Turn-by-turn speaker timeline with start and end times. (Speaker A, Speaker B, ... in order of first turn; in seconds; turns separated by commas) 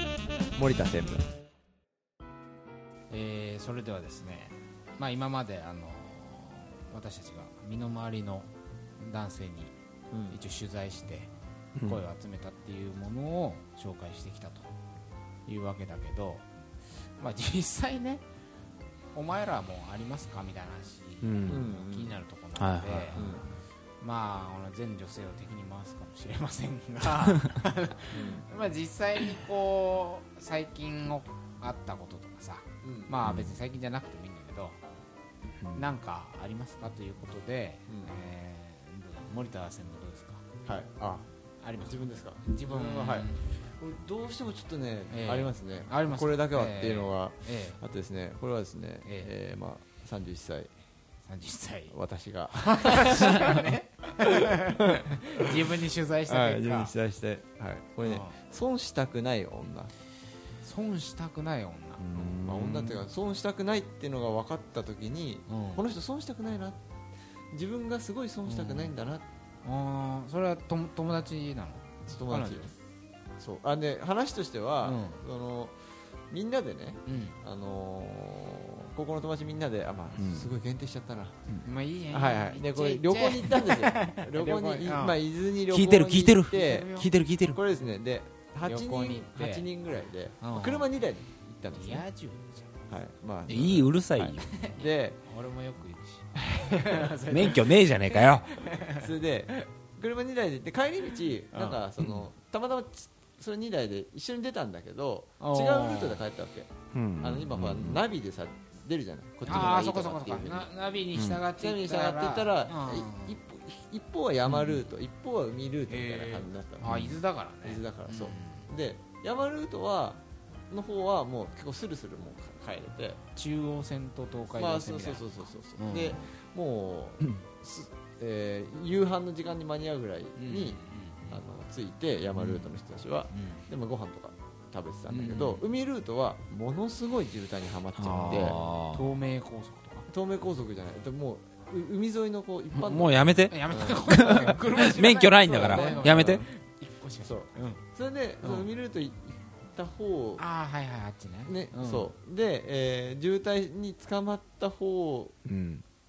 Speaker A: 0.6-1.3, Speaker B: 3.1-9.7, Speaker A: 10.1-10.4, Speaker B: 10.3-11.3, Speaker C: 11.8-12.0, Speaker B: 11.8-14.7, Speaker B: 15.5-16.5, Speaker B: 17.1-18.2, Speaker B: 19.1-23.4, Speaker C: 21.2-21.7, Speaker A: 21.5-22.2, Speaker C: 22.6-23.5, Speaker A: 23.1-23.5, Speaker B: 24.0-34.8, Speaker A: 28.1-28.4, Speaker A: 32.8-33.1, Speaker C: 33.2-33.5, Speaker C: 35.6-35.9, Speaker B: 35.7-40.4, Speaker A: 37.9-38.1, Speaker A: 40.6-41.3, Speaker B: 41.6-43.5, Speaker A: 41.9-50.7, Speaker B: 45.1-47.8, Speaker B: 49.0-49.3, Speaker B: 51.3-52.0, Speaker A: 51.9-55.6, Speaker B: 52.5-56.9, Speaker A: 56.3-59.9, Speaker B: 58.0-58.4, Speaker B: 60.6-62.1, Speaker C: 62.0-63.0, Speaker A: 62.4-66.8, Speaker B: 65.5-65.8, Speaker A: 67.5-69.2, Speaker B: 68.5-69.0, Speaker B: 69.6-72.7, Speaker A: 72.1-72.7, Speaker A: 73.4-75.8, Speaker B: 74.8-75.2, Speaker A: 76.3-81.4, Speaker B: 77.1-77.4, Speaker C: 80.2-80.5, Speaker B: 81.6-85.2, Speaker A: 82.1-87.0, Speaker C: 85.7-87.6, Speaker B: 86.5-87.1, Speaker A: 87.5-92.0, Speaker B: 88.7-89.7, Speaker B: 90.4-90.9, Speaker B: 91.7-92.9, Speaker A: 92.9-95.2, Speaker C: 93.5-94.5, Speaker B: 94.4-99.1, Speaker A: 96.5-97.0, Speaker C: 97.2-98.5, Speaker A: 99.0-110.7, Speaker B: 101.5-101.8, Speaker B: 105.4-106.2, Speaker C: 106.9-108.0, Speaker B: 109.5-113.4, Speaker C: 109.5-109.7, Speaker C: 111.2-111.4, Speaker A: 111.5-117.0, Speaker B: 114.5-114.8, Speaker B: 115.9-118.7, Speaker C: 116.8-117.2, Speaker A: 117.6-123.2, Speaker B: 123.4-126.3, Speaker A: 124.5-138.6, Speaker B: 130.4-131.4, Speaker B: 132.4-132.7, Speaker B: 133.3-133.7, Speaker B: 135.1-135.6, Speaker C: 138.0-139.1, Speaker B: 138.3-140.1, Speaker A: 140.1-146.5, Speaker C: 142.7-146.4, Speaker B: 143.5-147.8, Speaker A: 147.2-150.4, Speaker B: 148.4-148.7, Speaker B: 150.4-152.1, Speaker A: 151.5-155.3, Speaker C: 155.5-155.8